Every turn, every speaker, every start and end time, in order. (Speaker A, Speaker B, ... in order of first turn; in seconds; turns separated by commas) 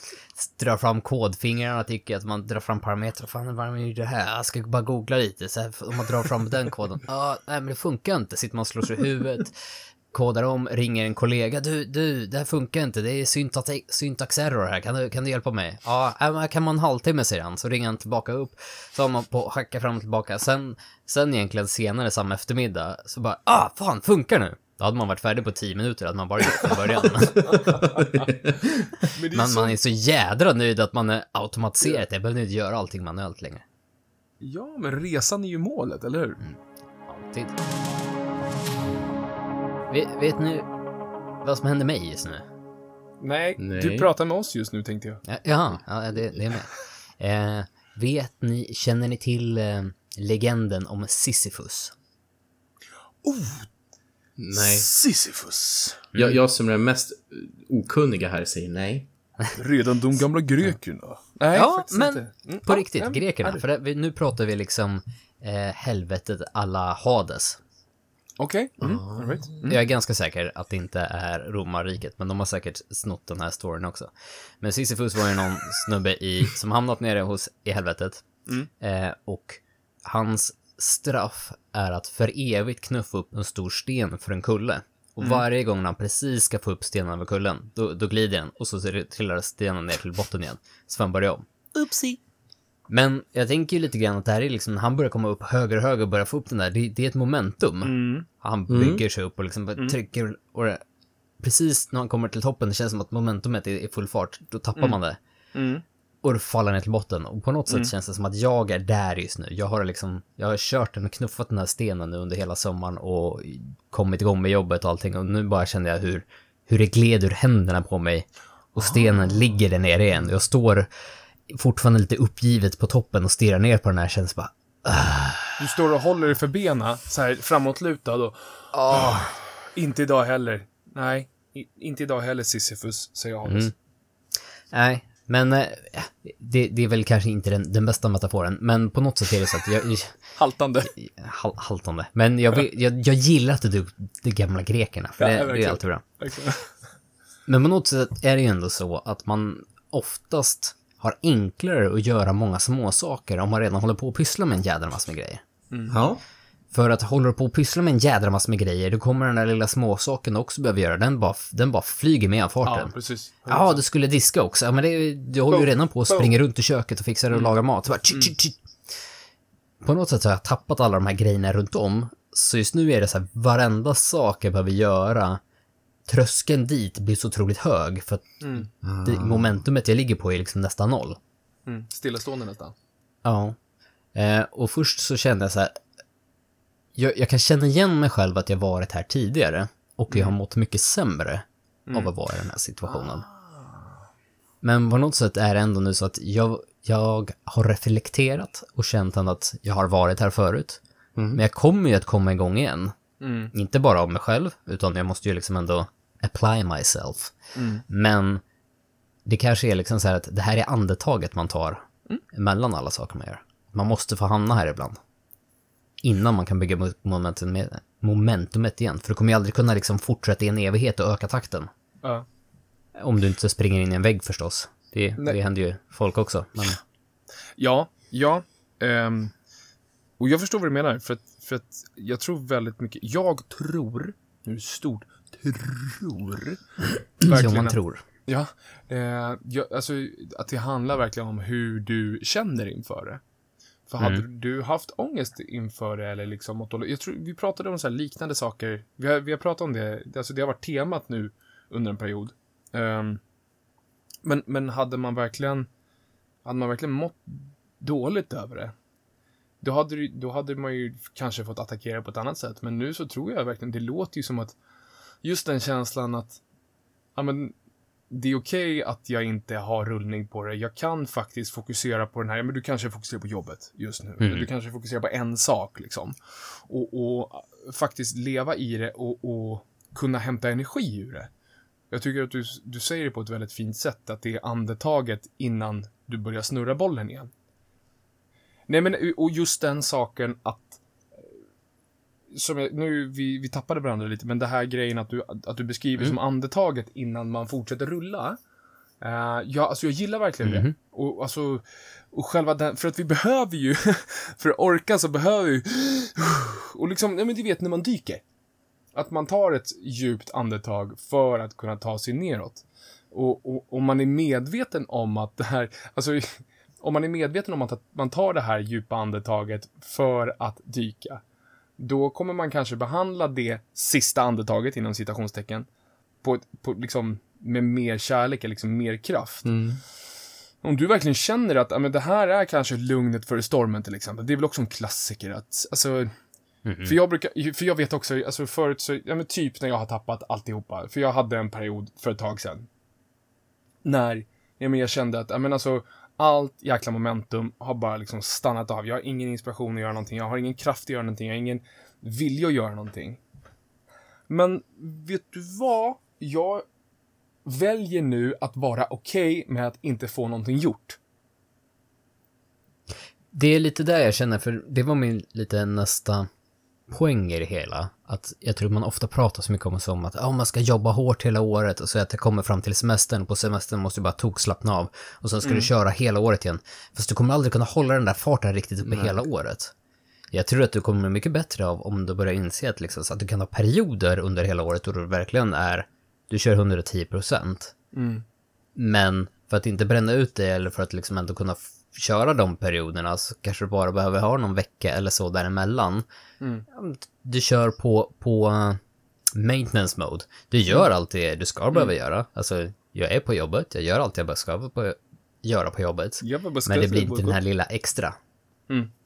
Speaker A: 0.3-9.6, Speaker A: 10.1-27.8, Speaker B: 27.4-28.9, Speaker C: 29.0-29.8, Speaker A: 29.3-33.6, Speaker C: 34.4-36.4, Speaker A: 36.4-37.6, Speaker A: 39.9-40.7, Speaker A: 41.4-42.5, Speaker C: 43.2-45.2, Speaker B: 43.6-44.1, Speaker A: 45.3-51.9, Speaker C: 53.2-53.7, Speaker B: 54.4-54.9, Speaker C: 54.5-56.1, Speaker B: 56.1-59.1, Speaker C: 59.6-63.6, Speaker A: 61.5-67.6, Speaker C: 68.4-69.7, Speaker B: 68.8-69.4, Speaker A: 69.6-78.2, Speaker A: 78.8-91.5, Speaker C: 85.2-85.5, Speaker C: 91.8-92.2, Speaker A: 92.9-100.8, Speaker C: 97.8-98.3, Speaker B: 98.7-99.0, Speaker A: 101.4-105.2, Speaker C: 105.5-105.8, Speaker A: 106.2-120.9, Speaker A: 121.5-125.6, Speaker C: 125.6-133.7, Speaker A: 128.7-129.3, Speaker A: 133.5-133.7, Speaker A: 134.7-140.2, Speaker C: 140.4-140.9, Speaker A: 140.9-146.0, Speaker C: 145.2-146.7, Speaker A: 147.5-155.4, Speaker C: 155.7-156.0, Speaker B: 155.9-156.2, Speaker A: 156.7-162.9, Speaker C: 162.7-163.8, Speaker A: 163.5-168.6, Speaker C: 165.5-166.3, Speaker C: 167.3-167.6, Speaker A: 169.8-175.4, Speaker A: 176.1-178.4, Speaker C: 178.4-178.7, Speaker B: 178.8-179.6, Speaker A: 179.1-181.2, Speaker C: 181.7-182.8, Speaker A: 183.2-183.6, Speaker A: 184.2-185.8, Speaker A: 187.0-193.2, Speaker C: 190.1-190.4, Speaker C: 191.9-192.1, Speaker C: 192.9-193.9, Speaker A: 194.6-200.8, Speaker A: 201.3-202.9, Speaker C: 203.2-203.5, Speaker A: 203.5-207.3, Speaker C: 207.6-207.8, Speaker A: 207.9-208.4, Speaker A: 209.3-215.0, Speaker A: 216.0-221.7, Speaker A: 223.0-226.8, Speaker C: 227.6-229.3, Speaker C: 230.2-236.6, Speaker C: 237.2-243.2, Speaker A: 237.2-238.0, Speaker C: 243.9-253.2, Speaker C: 254.2-255.7, Speaker C: 256.4-258.7, Speaker C: 259.6-264.6, Speaker C: 265.2-266.4, Speaker C: 267.2-267.5, Speaker C: 268.1-281.3, Speaker A: 274.2-274.5, Speaker C: 281.9-287.3, Speaker C: 288.7-291.3, Speaker C: 292.3-298.4, Speaker C: 299.0-308.2, Speaker A: 300.4-300.7, Speaker C: 308.9-321.2, Speaker C: 321.8-325.7, Speaker C: 326.2-329.5, Speaker B: 329.4-329.8, Speaker C: 330.6-336.1, Speaker A: 336.7-337.0, Speaker C: 336.8-342.7, Speaker C: 343.8-353.2, Speaker C: 354.3-356.6, Speaker C: 357.4-361.0, Speaker A: 363.3-366.3, Speaker A: 366.9-379.7, Speaker C: 375.4-375.7, Speaker B: 378.9-379.2, Speaker A: 380.3-387.7, Speaker C: 387.9-388.2, Speaker A: 388.8-396.1, Speaker C: 396.4-396.7, Speaker A: 396.7-398.8, Speaker A: 399.4-408.2, Speaker C: 406.2-407.4